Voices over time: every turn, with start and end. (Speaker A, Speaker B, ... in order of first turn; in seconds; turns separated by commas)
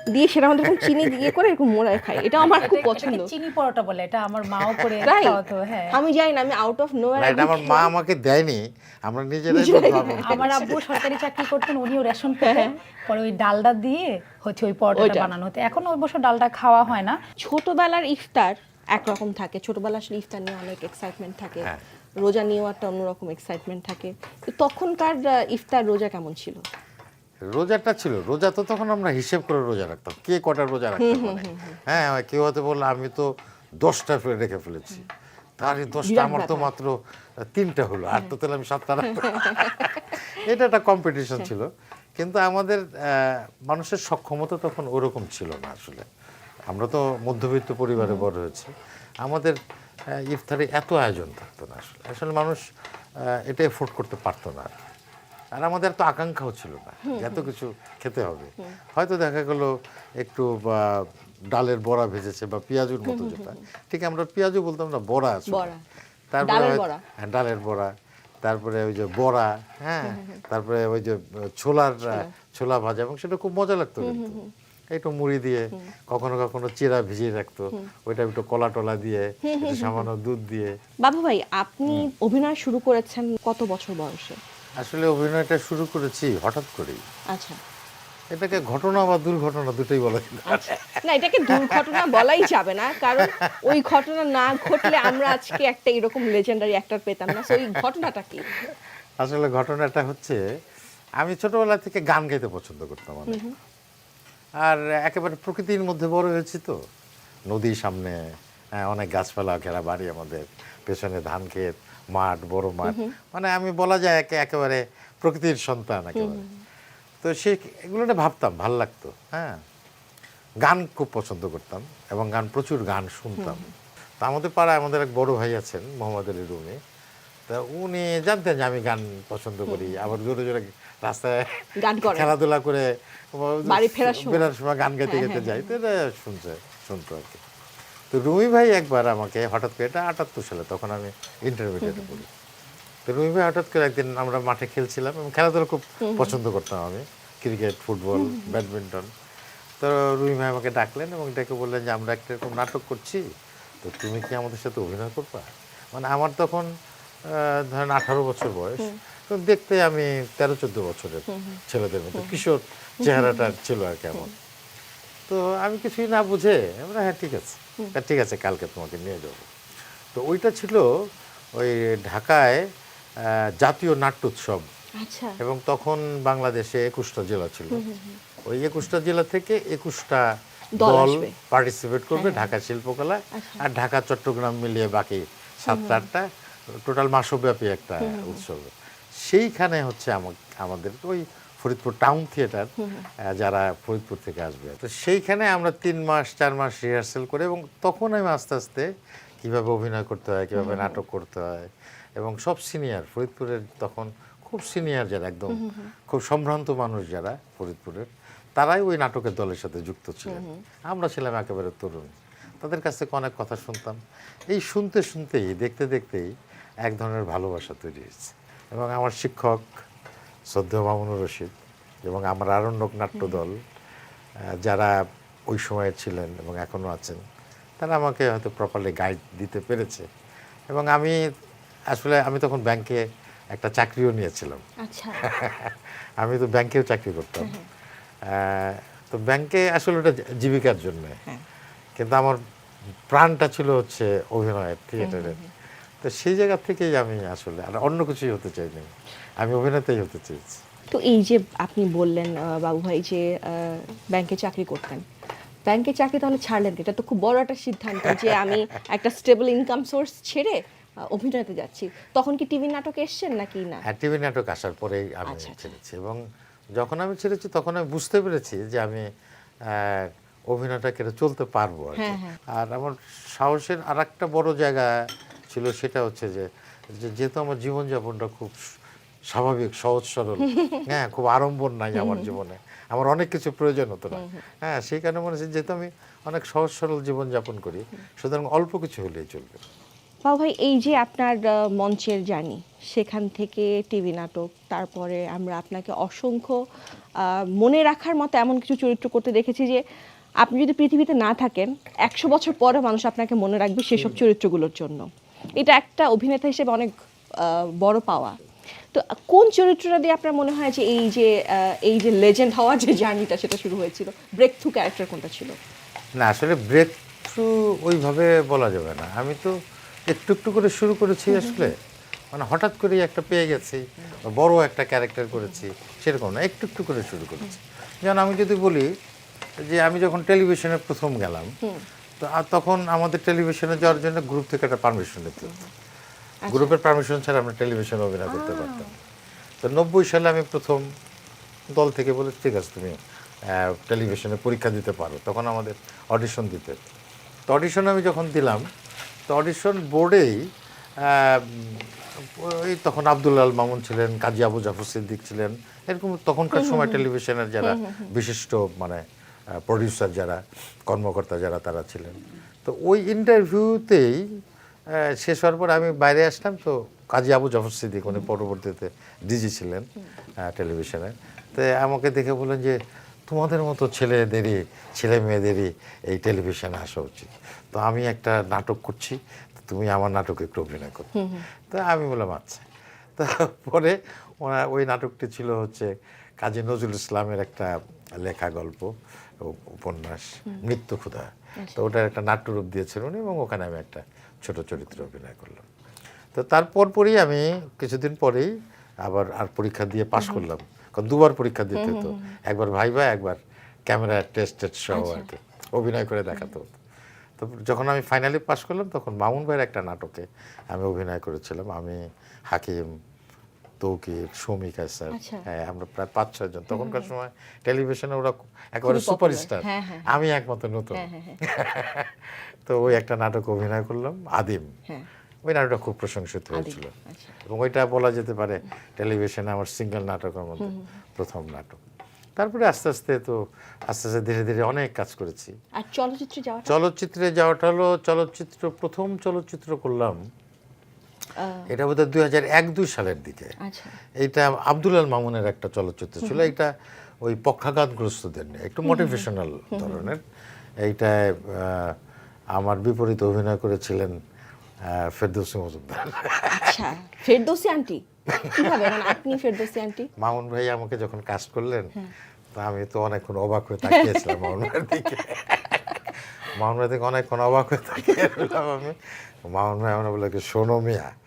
Speaker A: 0.1-3.3, Speaker B: 0.7-1.3, Speaker C: 2.4-6.0, Speaker B: 4.4-5.2, Speaker A: 5.0-5.4, Speaker A: 5.9-7.9, Speaker B: 7.2-10.8, Speaker A: 9.5-10.8, Speaker C: 9.7-17.2, Speaker A: 12.4-12.7, Speaker A: 14.9-15.3, Speaker A: 17.4-26.6, Speaker B: 27.5-33.3, Speaker A: 31.0-31.8, Speaker B: 33.8-35.1, Speaker B: 35.6-46.0, Speaker A: 36.0-36.7, Speaker A: 39.0-40.2, Speaker B: 46.7-48.7, Speaker A: 48.0-48.3, Speaker B: 49.2-49.5, Speaker B: 50.1-52.6, Speaker B: 53.2-54.7, Speaker B: 55.5-65.7, Speaker A: 57.1-57.5, Speaker A: 63.0-63.6, Speaker A: 65.5-65.8, Speaker B: 66.3-67.9, Speaker A: 66.4-67.0, Speaker B: 68.4-74.4, Speaker A: 70.0-70.4, Speaker A: 72.0-72.3, Speaker A: 74.0-74.5, Speaker B: 74.9-80.7, Speaker A: 79.4-80.1, Speaker A: 81.0-84.4, Speaker B: 84.8-87.0, Speaker A: 87.3-87.6, Speaker B: 88.3-91.0, Speaker A: 90.5-98.5, Speaker B: 91.5-92.5, Speaker B: 93.1-93.8, Speaker B: 94.8-95.6, Speaker B: 99.2-100.4, Speaker B: 101.2-103.4, Speaker A: 103.3-103.5, Speaker B: 104.6-106.8, Speaker B: 107.5-108.1, Speaker B: 108.8-116.4, Speaker A: 112.8-113.1, Speaker A: 116.1-116.6, Speaker B: 117.2-119.6, Speaker B: 120.6-123.6, Speaker A: 123.4-123.7, Speaker B: 124.2-126.8, Speaker B: 127.5-137.4, Speaker A: 129.7-130.1, Speaker A: 131.8-132.3, Speaker A: 133.6-134.5, Speaker A: 135.0-135.7, Speaker B: 138.1-142.3, Speaker A: 141.8-142.2, Speaker B: 143.1-149.1, Speaker A: 146.0-146.3, Speaker A: 148.2-148.6, Speaker B: 149.8-153.2, Speaker B: 153.8-156.7, Speaker B: 157.3-164.3, Speaker A: 161.3-161.6, Speaker A: 162.2-162.4, Speaker A: 163.0-163.5, Speaker B: 165.3-169.5, Speaker B: 170.1-170.9, Speaker B: 171.6-172.6, Speaker B: 173.2-174.7, Speaker A: 175.0-175.3, Speaker B: 175.4-177.8, Speaker A: 177.7-178.2, Speaker B: 178.5-180.2, Speaker A: 180.8-181.3, Speaker B: 180.8-186.2, Speaker A: 182.1-182.5, Speaker A: 183.3-183.6, Speaker A: 185.7-186.1, Speaker B: 186.8-188.7, Speaker A: 188.0-188.4, Speaker B: 189.2-192.7, Speaker A: 192.8-193.1, Speaker B: 193.3-198.9, Speaker B: 199.4-208.1, Speaker A: 200.6-201.0, Speaker A: 205.5-205.9, Speaker B: 208.6-212.1, Speaker A: 210.3-210.6, Speaker B: 212.6-214.0, Speaker B: 214.5-216.3, Speaker B: 216.8-219.7, Speaker B: 220.5-221.5, Speaker B: 222.1-223.6, Speaker A: 223.2-223.4, Speaker B: 224.6-224.9, Speaker B: 225.5-227.2, Speaker B: 227.8-230.1, Speaker B: 230.7-231.2, Speaker B: 231.9-233.0, Speaker B: 233.5-234.6, Speaker A: 234.8-235.2, Speaker B: 235.2-237.6, Speaker A: 237.4-237.7, Speaker B: 238.3-241.2, Speaker B: 242.0-242.4, Speaker B: 243.1-245.4, Speaker A: 245.0-245.5, Speaker B: 246.0-248.9, Speaker B: 249.4-250.6, Speaker A: 250.9-255.0, Speaker A: 255.7-260.6, Speaker B: 258.1-258.4, Speaker A: 261.1-263.8, Speaker B: 263.9-266.2, Speaker A: 265.2-265.7, Speaker B: 266.8-269.0, Speaker B: 269.7-274.9, Speaker A: 271.9-272.4, Speaker B: 275.5-278.6, Speaker B: 279.3-289.6, Speaker A: 280.5-280.8, Speaker A: 281.9-282.3, Speaker A: 284.1-284.4, Speaker A: 290.2-296.6, Speaker A: 297.2-299.8, Speaker A: 300.4-308.4, Speaker A: 308.9-315.6, Speaker B: 316.2-319.5, Speaker B: 320.1-321.7, Speaker A: 321.3-321.7, Speaker B: 322.3-328.9, Speaker B: 329.6-331.5, Speaker B: 332.2-335.6, Speaker A: 335.4-335.7, Speaker A: 336.4-336.7, Speaker B: 336.5-338.9, Speaker A: 338.3-338.9, Speaker B: 339.6-340.8, Speaker B: 341.8-346.8, Speaker B: 347.5-348.7, Speaker B: 349.3-350.4, Speaker B: 351.0-359.0, Speaker A: 356.5-357.0, Speaker A: 357.6-358.1, Speaker B: 359.6-364.2, Speaker B: 364.9-369.9, Speaker B: 370.4-372.8, Speaker B: 373.3-382.6, Speaker A: 381.1-381.4, Speaker B: 383.2-395.6, Speaker A: 391.6-391.9, Speaker B: 396.3-398.5, Speaker B: 399.1-406.8, Speaker A: 400.1-400.4, Speaker A: 401.7-402.4, Speaker A: 404.9-405.3, Speaker B: 407.4-412.9, Speaker B: 413.8-424.7, Speaker A: 415.1-415.4, Speaker A: 416.7-417.1, Speaker A: 418.8-420.2, Speaker A: 420.9-421.4, Speaker B: 425.4-426.9, Speaker A: 426.5-427.4, Speaker B: 427.4-431.8, Speaker A: 430.6-430.9, Speaker B: 432.4-435.5, Speaker A: 435.8-436.8, Speaker B: 436.7-440.2, Speaker A: 441.4-441.7, Speaker B: 441.7-443.5, Speaker A: 443.6-443.9, Speaker B: 444.2-446.7, Speaker A: 446.2-446.5, Speaker B: 447.2-450.2, Speaker A: 448.8-450.1, Speaker B: 450.8-451.9, Speaker B: 452.6-454.2, Speaker B: 454.9-456.8, Speaker A: 456.5-460.1, Speaker B: 458.4-459.1, Speaker B: 460.2-461.9, Speaker B: 462.5-466.0, Speaker A: 463.9-464.5, Speaker B: 466.5-471.1